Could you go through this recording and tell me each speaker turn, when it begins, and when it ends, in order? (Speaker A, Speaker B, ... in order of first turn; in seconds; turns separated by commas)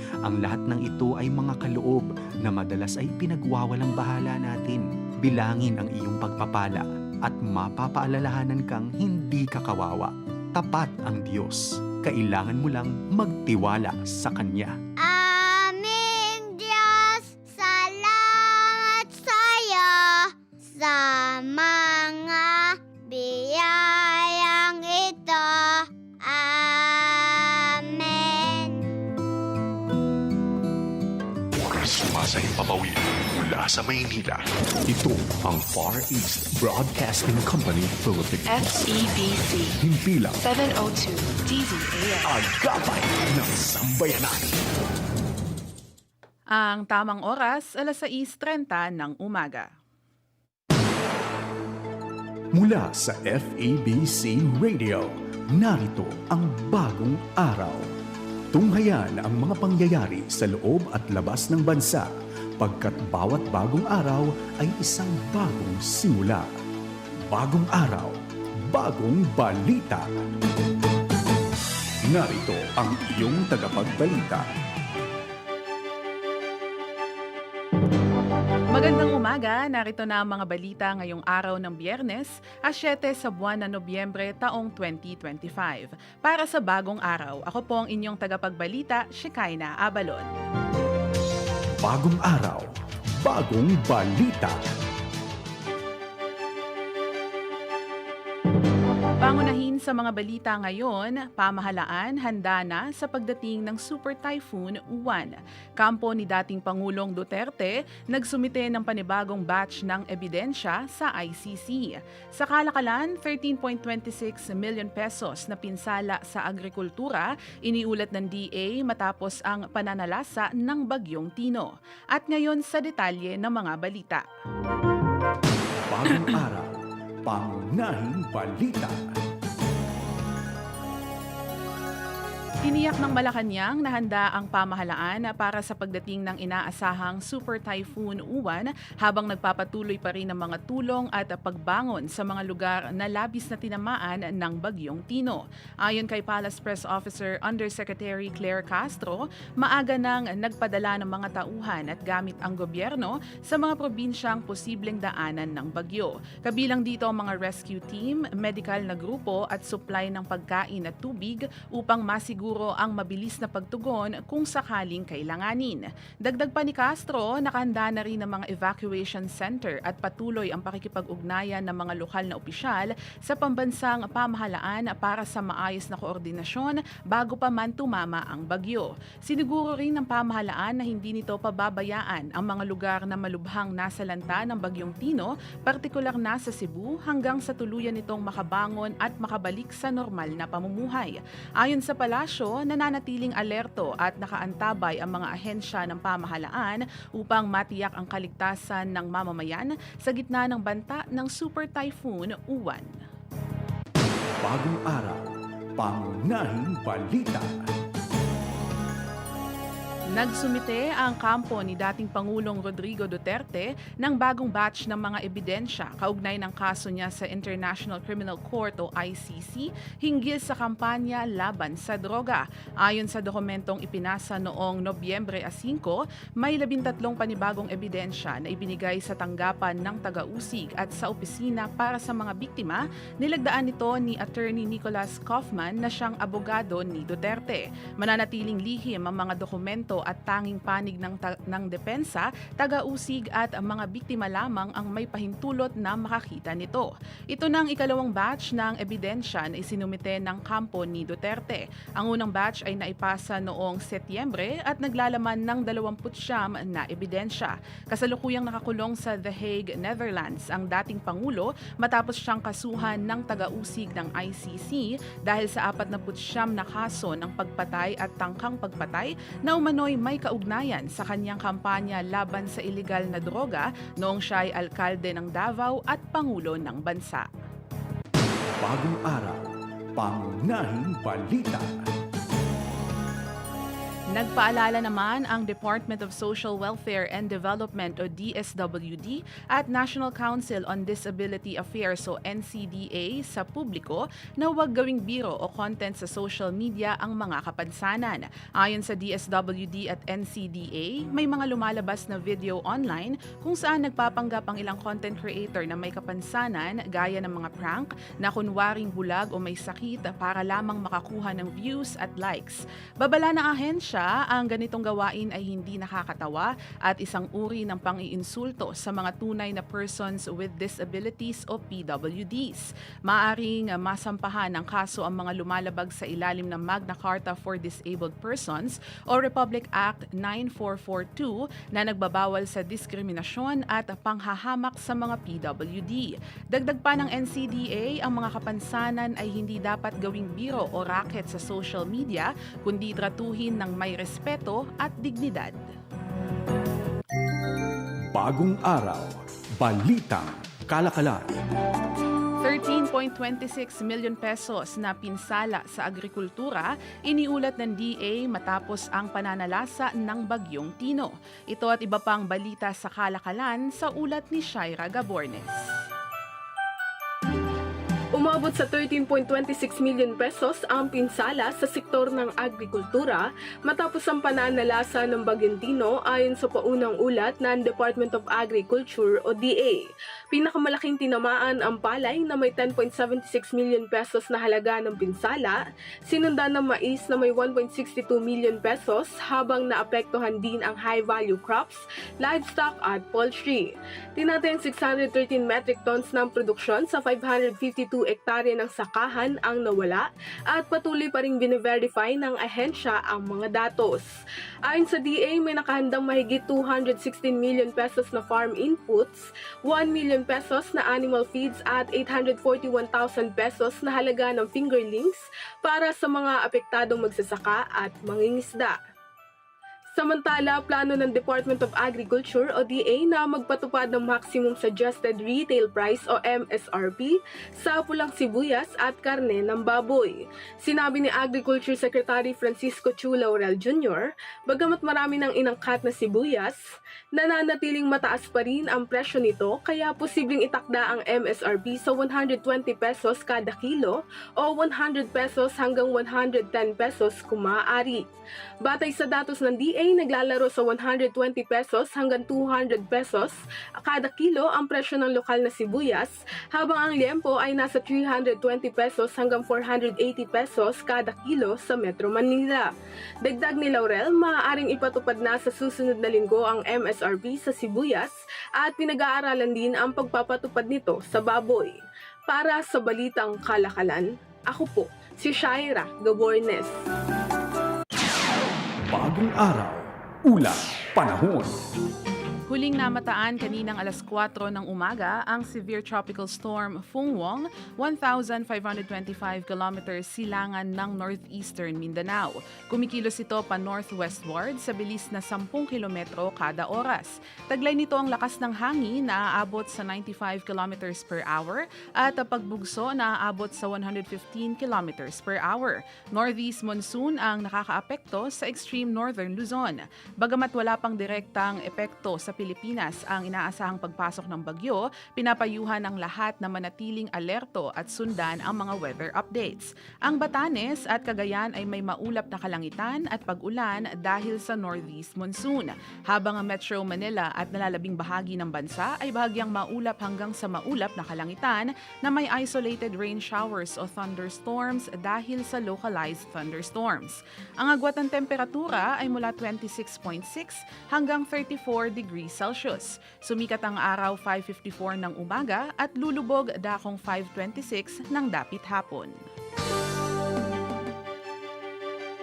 Speaker A: 0.2-14.8, Speaker B: 15.0-28.9, Speaker C: 31.6-38.6, Speaker D: 38.5-39.8, Speaker C: 39.8-40.4, Speaker D: 40.4-42.4, Speaker C: 42.2-44.5, Speaker E: 46.5-49.7, Speaker C: 52.5-57.8, Speaker C: 58.5-66.5, Speaker C: 67.3-68.1, Speaker C: 68.7-70.1, Speaker C: 72.1-74.5, Speaker E: 78.7-90.3, Speaker C: 91.8-94.6, Speaker E: 99.2-124.2, Speaker C: 125.9-126.7, Speaker C: 127.2-129.2, Speaker E: 132.6-202.9, Speaker C: 204.4-205.2, Speaker C: 205.8-207.7, Speaker E: 210.1-277.3, Speaker C: 278.6-279.4, Speaker C: 280.0-281.9, Speaker E: 284.1-345.6, Speaker C: 348.1-349.1, Speaker C: 349.6-351.4, Speaker E: 352.4-365.7, Speaker F: 368.1-404.1, Speaker F: 404.6-418.8, Speaker F: 419.9-436.6, Speaker F: 437.1-448.0, Speaker F: 448.6-462.7, Speaker F: 463.2-476.8, Speaker C: 478.9-481.6, Speaker E: 482.5-549.1